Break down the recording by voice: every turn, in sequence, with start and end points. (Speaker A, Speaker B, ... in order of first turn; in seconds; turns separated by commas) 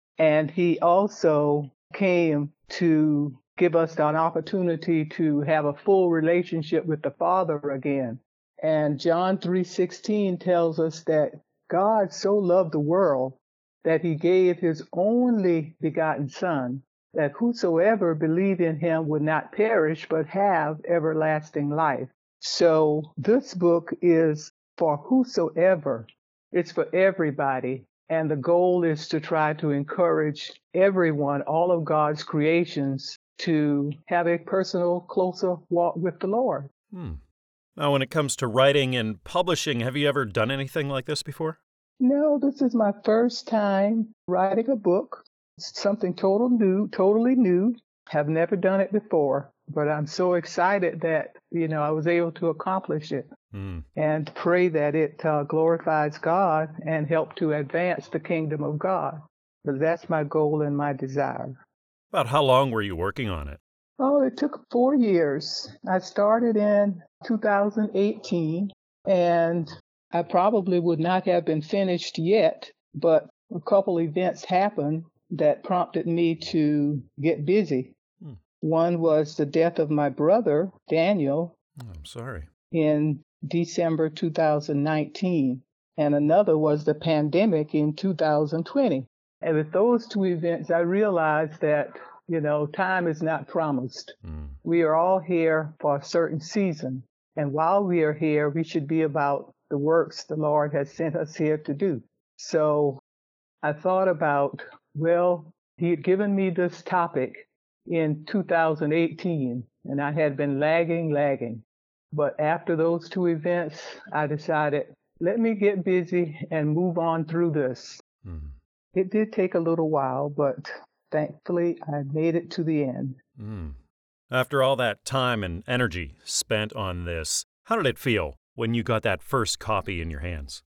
Speaker A: 0.2-36.7, Speaker B: 36.9-37.2, Speaker B: 37.8-41.6, Speaker A: 42.0-53.3, Speaker B: 53.5-53.9, Speaker A: 54.0-61.6, Speaker B: 62.1-63.6, Speaker A: 64.0-77.9, Speaker A: 78.6-81.5, Speaker B: 81.8-82.5, Speaker A: 82.7-103.0, Speaker B: 94.2-94.6, Speaker A: 103.6-118.0, Speaker B: 118.2-118.5, Speaker A: 118.9-123.2, Speaker B: 123.4-123.8, Speaker B: 124.3-130.6